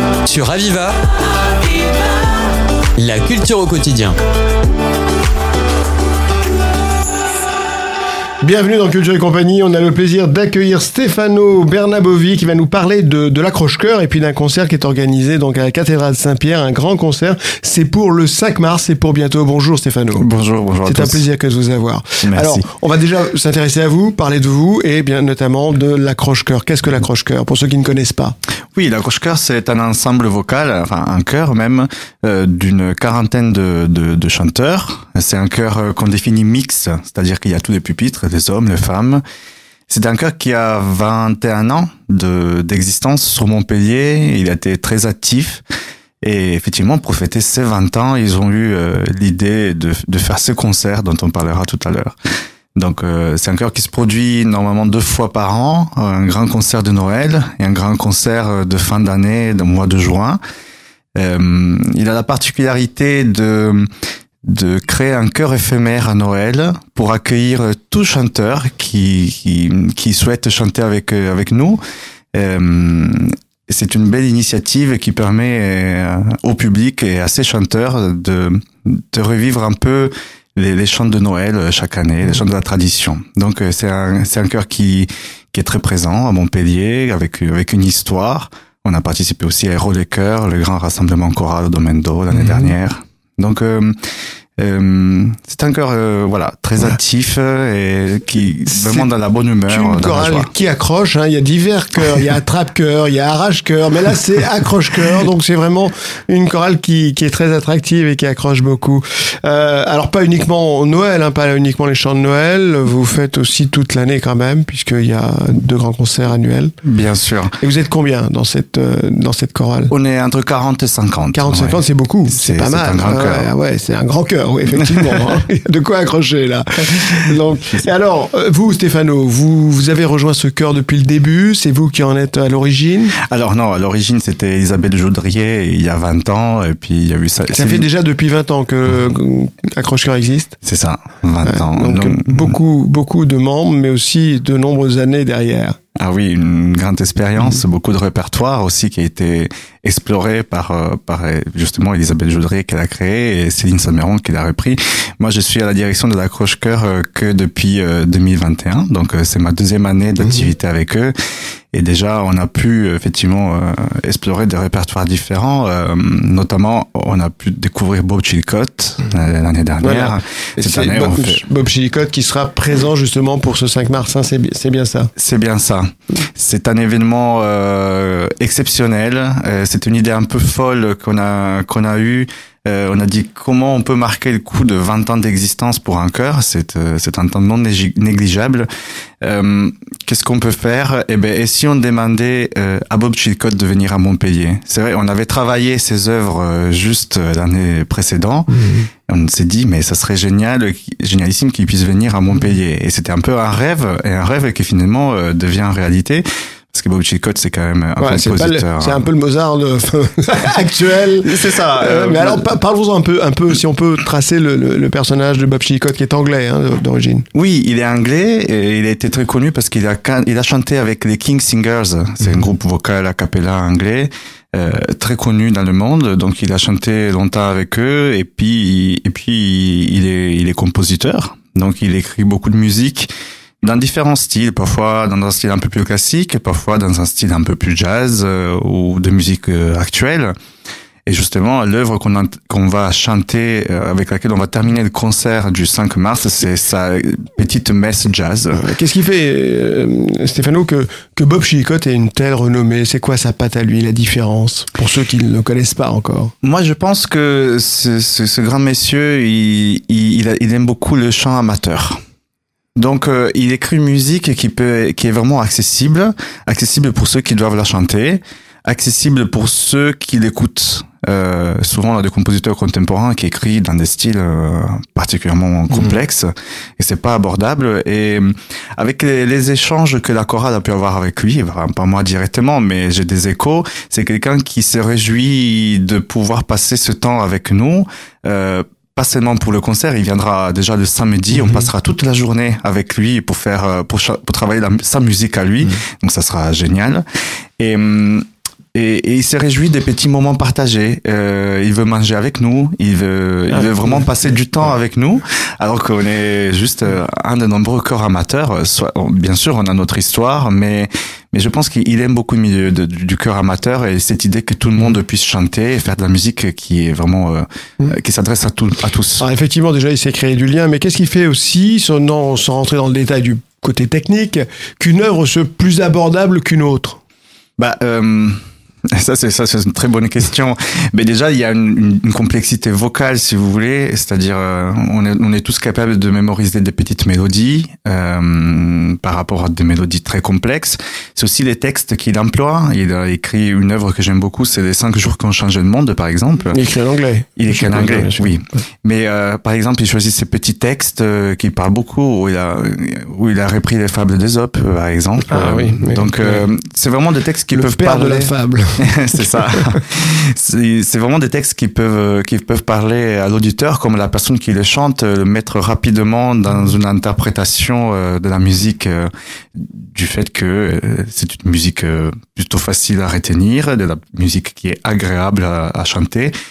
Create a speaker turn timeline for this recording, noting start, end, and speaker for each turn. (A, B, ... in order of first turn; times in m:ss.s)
0:00.2-0:01.0 A
0:03.0-0:04.2 A
0:08.4-0:20.3 B
0:20.2-0:21.2 C
0:20.8-0:28.4 B
0:22.2-0:22.7 C
0:28.7-0:39.2 C
0:39.9-0:45.6 C
0:46.2-0:52.1 C
0:52.8-1:00.4 C
1:01.2-1:03.9 C
1:04.4-1:11.8 C
1:12.3-1:33.9 C
1:32.4-1:32.7 B
1:34.6-1:40.5 C
1:38.7-1:39.1 B
1:39.7-1:56.7 B
1:56.8-1:57.5 C
1:57.6-1:59.9 B
1:59.9-2:03.5 C
2:01.3-2:13.2 B
2:13.2-2:17.9 C
2:17.5-2:20.6 B
2:20.6-2:22.5 C
2:21.4-2:25.8 B
2:26.0-2:41.1 C
2:41.7-2:51.4 C
2:49.8-2:55.1 B
2:55.2-3:08.7 C
3:09.2-3:18.5 C
3:18.5-3:18.9 B
3:19.1-3:29.1 C
3:28.0-3:37.2 B
3:31.2-3:32.4 C
3:37.3-3:53.1 C
3:53.6-4:00.3 C
4:01.0-4:08.6 C
4:08.5-4:16.3 B
4:16.4-4:22.0 C
4:22.8-4:57.0 C
4:57.6-5:19.2 C
5:19.2-5:27.0 B
5:27.6-5:28.4 C
5:28.9-5:46.6 C
5:46.5-5:48.3 B
5:47.4-6:16.3 C
5:55.3-5:56.4 B
5:57.5-5:59.7 B